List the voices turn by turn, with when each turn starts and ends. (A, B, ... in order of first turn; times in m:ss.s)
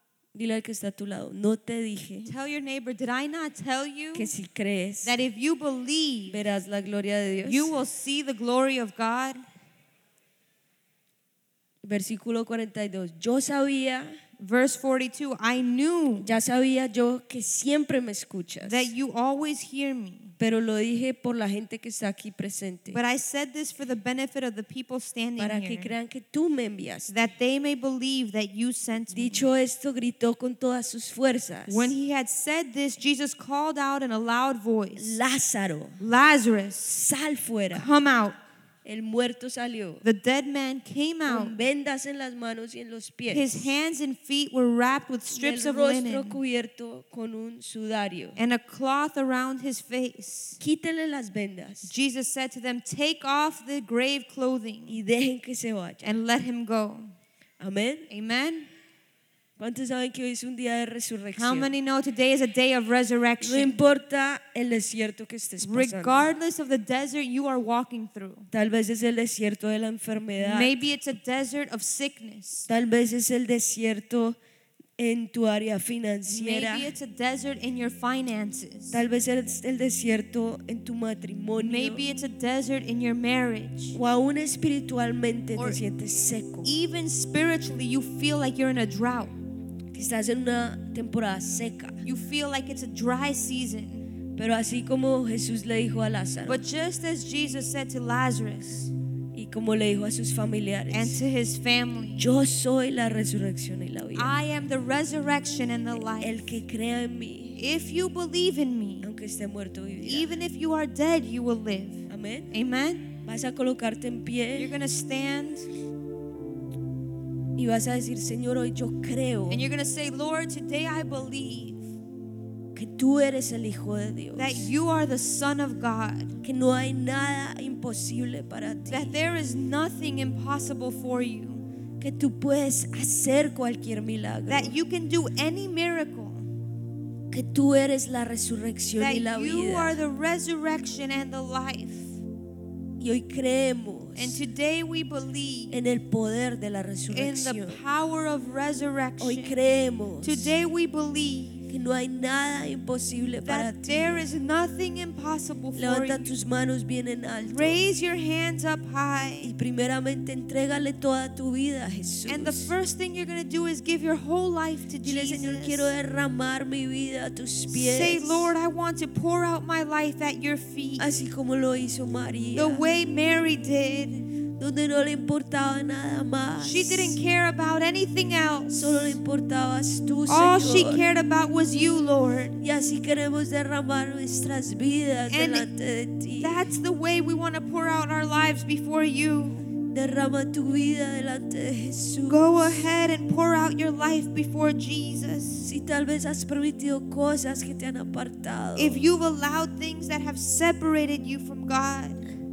0:00.3-0:02.3 A
0:02.2-0:04.3 B
0:04.1-0:05.2 A
0:05.0-0:06.4 B
0:06.3-0:07.7 A
0:07.4-0:09.4 B
0:11.8-0:14.2 A
0:14.4-0:16.3 B
0:16.2-0:18.9 A
0:18.6-0:20.3 B
0:20.4-0:23.0 A
0:22.9-0:25.9 B
0:25.4-0:27.2 A
0:27.1-0:29.4 B
0:29.1-0:31.9 A
0:31.7-0:35.2 B
0:35.0-0:36.0 A
0:36.0-0:37.0 B
0:36.9-0:37.9 A
0:37.7-0:38.4 B
0:38.8-0:40.0 A
0:40.0-0:41.6 B
0:41.2-0:43.7 A
0:43.3-0:46.4 B
0:45.3-0:48.4 A
0:48.4-0:50.6 B
0:50.6-0:51.9 A
0:51.8-0:55.0 B
0:54.9-0:56.1 A
0:56.0-0:57.1 B
0:57.6-0:58.1 A
0:58.1-0:58.7 B
0:59.6-1:01.7 A
1:01.4-1:03.8 B
1:03.4-1:06.3 A
1:05.6-1:08.5 B
1:08.5-1:10.8 A
1:10.4-1:12.7 B
1:12.7-1:14.4 A
1:15.0-1:16.9 A
1:16.2-1:19.0 B
1:18.9-1:22.0 A
1:21.6-1:24.0 B
1:23.9-1:26.7 A
1:25.6-1:25.8 B
1:26.6-1:29.3 B
1:29.9-1:32.0 A
1:32.0-1:34.1 B
1:34.4-1:36.6 A
1:36.4-1:38.9 B
1:39.3-1:41.2 A
1:40.9-1:42.3 B
1:42.2-1:44.3 A
1:44.1-1:46.5 B
1:46.0-1:47.6 A
1:47.6-1:49.1 B
1:49.0-1:50.3 A
1:50.0-1:53.1 B
1:52.1-1:52.5 A
1:53.2-1:54.7 A
1:54.5-1:55.7 B
1:57.6-1:59.6 A
1:59.5-2:01.9 B
2:02.7-2:04.7 A
2:04.3-2:06.4 B
2:06.4-2:09.1 A
2:08.9-2:11.6 B
2:12.0-2:14.7 A
2:14.5-2:16.5 B
2:17.3-2:20.0 A
2:19.0-2:22.2 B
2:23.0-2:24.4 A
2:24.1-2:25.8 B
2:25.7-2:27.8 A
2:27.1-2:29.6 B
2:29.2-2:30.5 A
2:30.2-2:31.6 B
2:31.7-2:34.3 A
2:33.4-2:36.3 B
2:35.7-2:37.8 A
2:37.4-2:39.5 B
2:39.4-2:42.7 A
2:42.3-2:45.9 B
2:45.0-2:48.5 A
2:47.7-2:51.0 B
2:51.0-2:52.8 A
2:52.5-2:54.3 B
2:54.6-2:57.2 A
2:56.6-2:59.2 B
2:58.7-3:01.0 A
3:00.3-3:02.6 B
3:02.6-3:06.6 A
3:05.3-3:05.7 B
3:06.4-3:09.7 B
3:09.9-3:12.7 A
3:12.3-3:15.7 B
3:15.6-3:19.0 A
3:18.8-3:22.2 B